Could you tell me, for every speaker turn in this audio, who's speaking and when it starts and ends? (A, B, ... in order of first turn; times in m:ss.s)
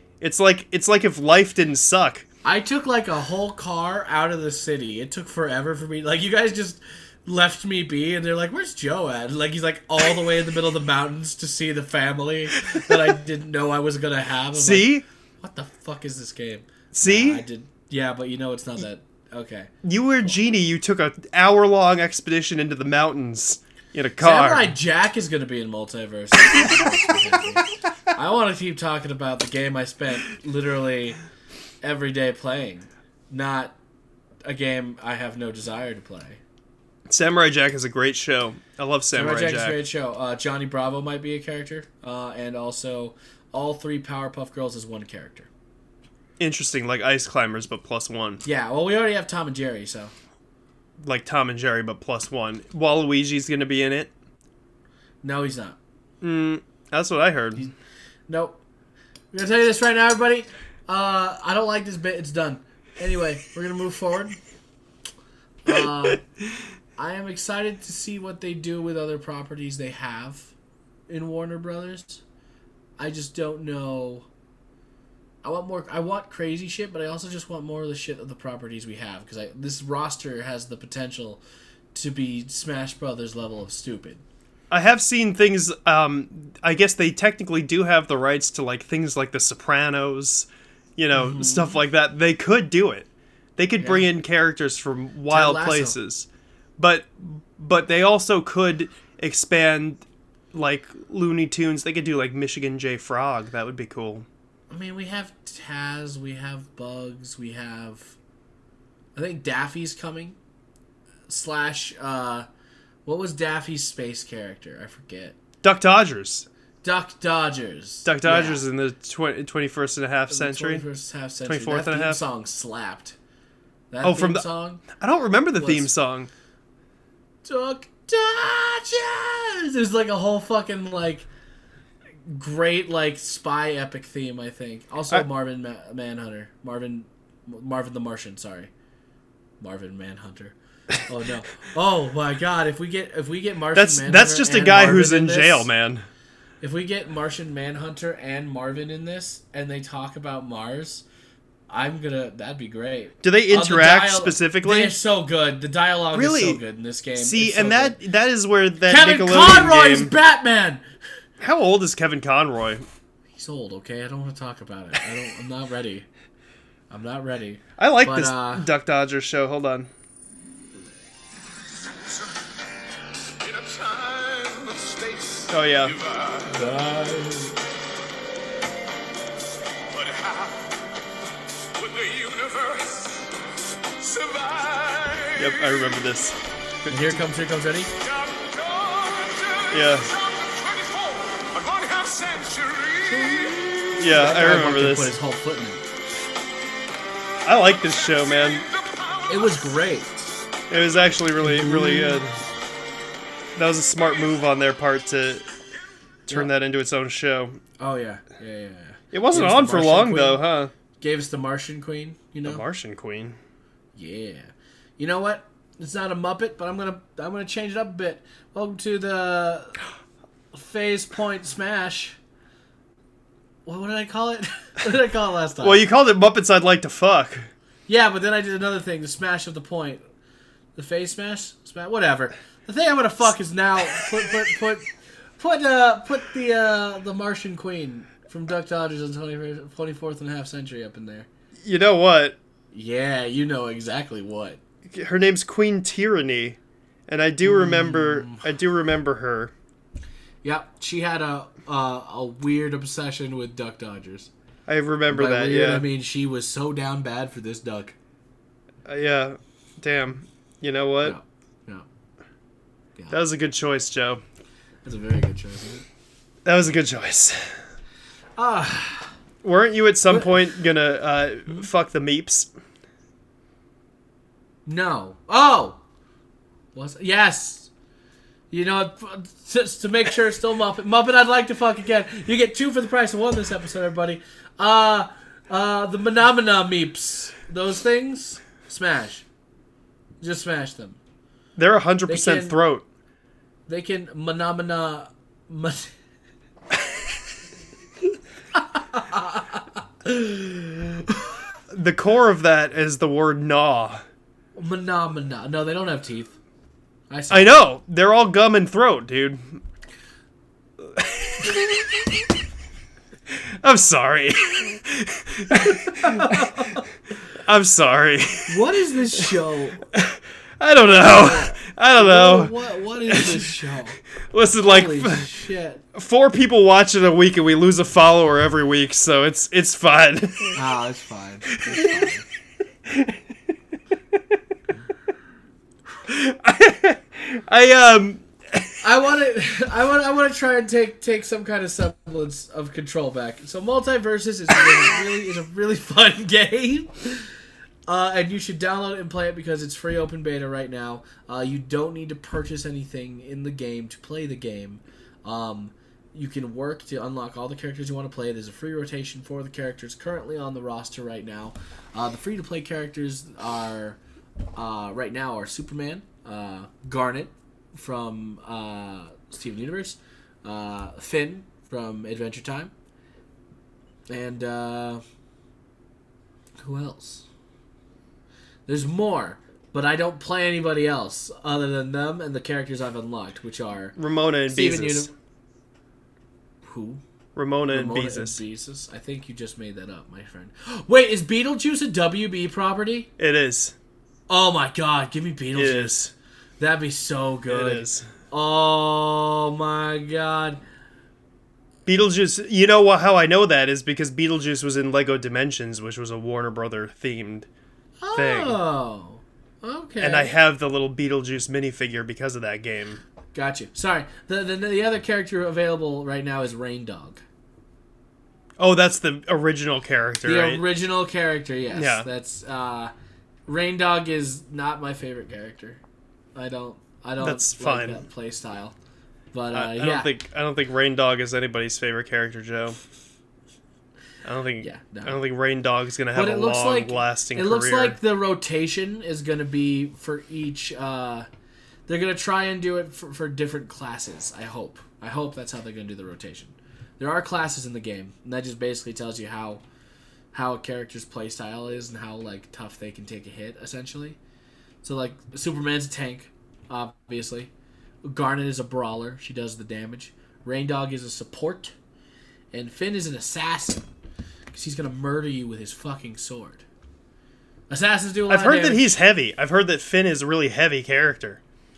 0:00.2-0:02.2 A
0:02.4-0:19.7 B
0:14.5-0:15.0 A
0:16.9-0:17.4 A
0:19.8-0:24.7 A
0:24.2-0:31.2 B
0:31.8-0:33.8 B
0:34.4-0:36.4 B
0:37.1-0:39.8 A
0:39.1-0:45.5 B
0:46.4-0:48.4 A
0:48.4-0:50.1 B
0:51.0-0:54.1 A
0:55.2-0:55.8 B
0:56.2-0:57.6 A
0:58.3-0:58.6 B
0:59.3-1:04.4 B
1:05.6-1:06.2 B
1:07.0-1:10.5 B
1:11.1-1:12.2 B
1:13.0-1:14.3 B
1:15.4-1:21.4 B
1:21.9-1:24.2 B
1:24.7-1:36.3 A
1:31.1-1:31.8 B
1:33.8-1:34.0 B
1:35.3-1:36.0 B
1:36.8-1:44.3 A
1:44.7-1:48.1 B
1:49.2-1:50.4 B
1:51.3-1:52.5 B
1:53.0-1:55.4 B
1:55.6-1:56.4 A
1:56.8-1:58.6 B
1:58.0-2:00.8 A
2:00.3-2:03.2 B
2:01.5-2:02.2 A
2:03.9-2:04.8 B
2:04.0-2:06.3 A
2:05.6-2:05.9 B
2:07.4-2:11.3 B
2:12.3-2:18.7 B
2:19.6-2:25.7 B
2:23.7-2:26.0 A
2:26.6-2:31.0 B
2:31.7-2:38.0 B
2:33.2-2:34.9 A
2:36.1-2:36.6 A
2:37.2-2:40.1 A
2:38.8-2:40.8 B
2:41.4-2:42.8 A
2:43.4-2:46.1 B
2:46.9-2:48.7 B
2:47.8-2:49.9 A
2:53.4-2:56.7 C
2:55.5-2:55.9 A
2:56.5-2:57.6 B
2:59.9-3:00.8 C
3:01.7-3:03.3 C
3:04.0-3:06.0 C
3:05.4-3:07.2 A
3:06.9-3:07.9 B
3:08.0-3:13.8 C
3:09.7-3:10.1 A
3:13.0-3:15.8 B
3:14.0-3:15.2 A
3:17.4-3:18.6 A
3:18.0-3:19.8 C
3:19.3-3:20.2 B
3:20.7-3:22.4 A
3:21.4-3:22.2 B
3:23.6-3:25.4 A
3:26.3-3:27.6 A
3:27.8-3:30.4 B
3:29.1-3:30.7 A
3:31.0-3:32.6 B
3:32.4-3:33.4 A
3:33.9-3:39.8 B
3:40.5-3:42.2 B
3:43.6-3:45.8 B
3:45.6-3:47.5 A
3:47.9-3:50.0 B
3:50.8-4:01.3 B
4:01.6-4:02.4 A
4:02.7-4:04.6 B
4:04.9-4:09.5 A
4:07.4-4:08.5 B
4:10.4-4:14.3 B
4:14.7-4:15.8 A
4:15.1-4:17.9 B
4:18.8-4:21.2 A
4:21.0-4:21.8 B
4:23.1-4:24.2 A
4:24.8-4:25.8 B
4:26.4-4:27.4 A
4:28.4-4:29.1 B
4:29.4-4:32.5 A
4:34.6-4:35.8 B
4:36.7-4:37.7 B
4:38.5-4:49.2 B
4:50.2-4:51.0 B
4:51.6-4:52.8 A
4:52.1-4:52.6 B
4:53.7-4:55.9 B
4:58.5-5:01.3 B
5:01.7-5:04.0 A
5:04.6-5:06.4 B
5:07.1-5:07.5 B
5:07.3-5:09.6 A
5:10.9-5:12.2 A
5:13.3-5:16.8 A
5:16.0-5:16.8 B
5:17.3-5:19.3 A
5:18.5-5:19.9 B
5:19.9-5:22.5 A
5:20.9-5:24.0 B
5:23.1-5:23.5 A
5:24.3-5:25.3 A
5:24.6-5:25.8 B
5:25.9-5:30.6 A
5:30.5-5:32.2 B
5:31.6-5:32.1 A
5:32.9-5:33.2 A
5:36.0-5:38.8 A
5:38.8-5:47.3 B
5:47.9-6:04.0 B
6:04.6-6:12.7 B
6:14.1-6:15.0 B
6:16.6-6:17.2 B
6:18.7-6:24.0 B
6:24.0-6:25.1 A
6:24.5-6:25.1 B
6:26.6-6:27.0 B
6:27.3-6:28.4 A
6:27.7-6:33.1 B
6:33.2-6:33.7 A
6:34.3-6:40.6 B
6:35.5-6:36.1 A
6:37.5-6:38.1 A
6:41.8-6:47.5 A
6:48.0-6:50.3 B
6:48.1-6:48.6 A
6:50.0-6:53.0 A
6:53.3-6:57.2 B
6:58.6-7:00.6 A
7:00.2-7:02.9 B
7:01.7-7:02.0 A
7:03.5-7:05.8 B
7:06.3-7:08.7 B
7:07.2-7:08.0 A
7:09.3-7:10.1 B
7:09.5-7:12.8 A
7:14.2-7:18.0 A
7:14.6-7:15.2 B
7:16.1-7:21.3 B
7:21.9-7:29.6 B
7:30.3-7:34.2 B
7:34.8-7:37.5 B
7:38.0-7:41.7 B
7:42.5-7:43.9 B
7:44.5-7:46.6 B
7:47.7-7:48.9 B
7:48.3-7:51.4 A